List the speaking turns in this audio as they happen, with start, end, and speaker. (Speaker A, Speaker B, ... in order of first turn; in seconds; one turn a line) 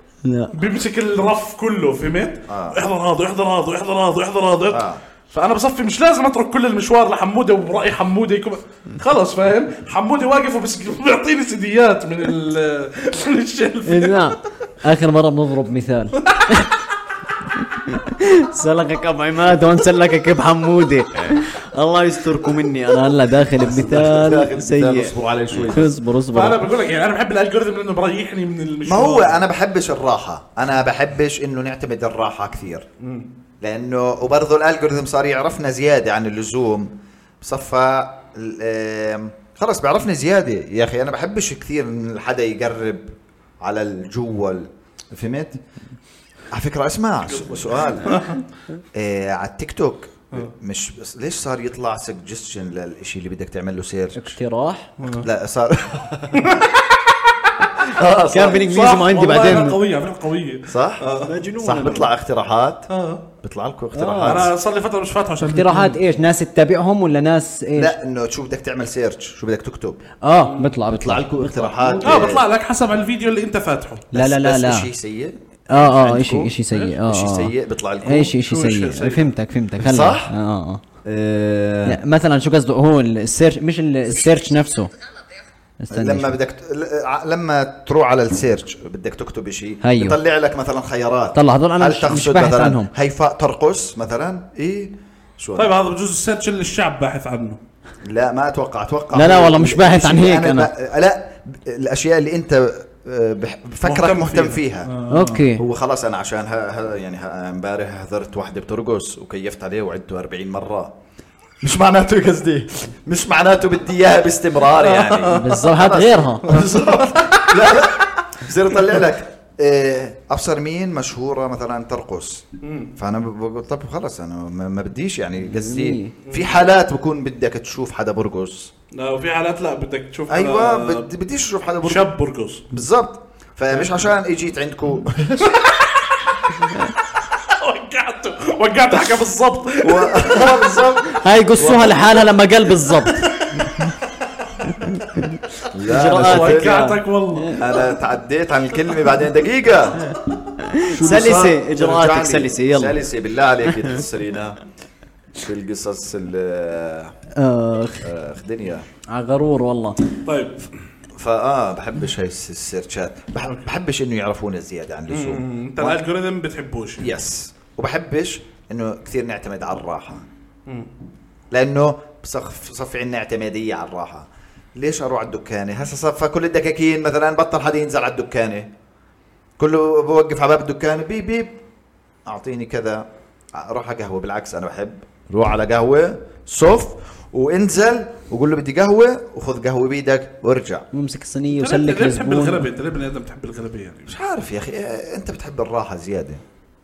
Speaker A: 0.2-0.5
Speaker B: 0.5-14.3
Speaker C: 2.5-2.8
Speaker C: 4.7-5.0
Speaker A: 13.9-16.7
Speaker B: 16.3-16.7
Speaker A: 17.8-26.6
Speaker C: 23.6-25.9
Speaker B: 26.3-29.4
Speaker C: 28.9-32.9
Speaker B: 33.0-33.3
Speaker C: 33.6-45.6
Speaker C: 46.5-48.2
Speaker B: 47.3-48.4
Speaker C: 49.0-54.4
Speaker A: 54.1-54.9
Speaker B: 55.0-55.3
Speaker C: 55.1-56.6
Speaker B: 56.3-56.8
Speaker C: 57.8-58.6
Speaker A: 58.3-59.8
Speaker B: 58.4-61.3
Speaker C: 60.7-62.9
Speaker A: 61.2-62.1
Speaker B: 62.9-63.2
Speaker C: 63.4-64.5
Speaker A: 63.9-64.5
Speaker B: 64.2-66.0
Speaker A: 65.4-67.9
Speaker C: 67.8-70.0
Speaker A: 70.2-72.4
Speaker C: 70.9-72.4
Speaker B: 72.0-74.1
Speaker A: 74.1-74.9
Speaker C: 74.1-78.4
Speaker A: 75.7-77.5
Speaker A: 78.0-80.8
Speaker B: 78.4-79.3
Speaker C: 79.8-80.3
Speaker C: 81.0-82.0
Speaker A: 81.9-84.9
Speaker A: 85.8-86.3
Speaker C: 85.9-95.7
Speaker A: 89.8-90.2
Speaker A: 91.3-92.9
Speaker B: 95.6-97.6
Speaker C: 98.0-104.9
Speaker A: 99.1-100.7
Speaker B: 103.8-105.5
Speaker A: 105.1-105.6
Speaker C: 105.5-110.9
Speaker C: 111.6-122.5
Speaker B: 114.7-115.7
Speaker A: 115.3-116.6
Speaker B: 116.4-117.6
Speaker B: 122.6-122.9
Speaker C: 123.0-128.7
Speaker A: 125.4-126.1
Speaker B: 126.3-126.6
Speaker B: 128.9-131.1
Speaker C: 130.3-132.1
Speaker B: 131.8-132.7
Speaker C: 132.7-135.6
Speaker B: 135.4-140.9
Speaker C: 139.8-142.2
Speaker A: 141.1-143.3
Speaker B: 143.1-143.9
Speaker A: 144.8-147.6
Speaker C: 145.7-146.8
Speaker B: 145.9-147.7
Speaker C: 147.5-150.2
Speaker A: 150.6-153.0
Speaker C: 150.8-154.6
Speaker C: 155.4-157.1
Speaker A: 157.4-158.1
Speaker C: 158.0-158.9
Speaker A: 159.1-160.0
Speaker B: 160.2-160.7
Speaker C: 161.2-166.0
Speaker B: 165.1-167.1
Speaker C: 167.0-170.2
Speaker C: 171.5-178.7
Speaker C: 179.6-181.6
Speaker C: 182.3-183.0
Speaker C: 183.6-190.9
Speaker A: 190.9-192.7
Speaker B: 191.5-194.1
Speaker C: 194.1-196.4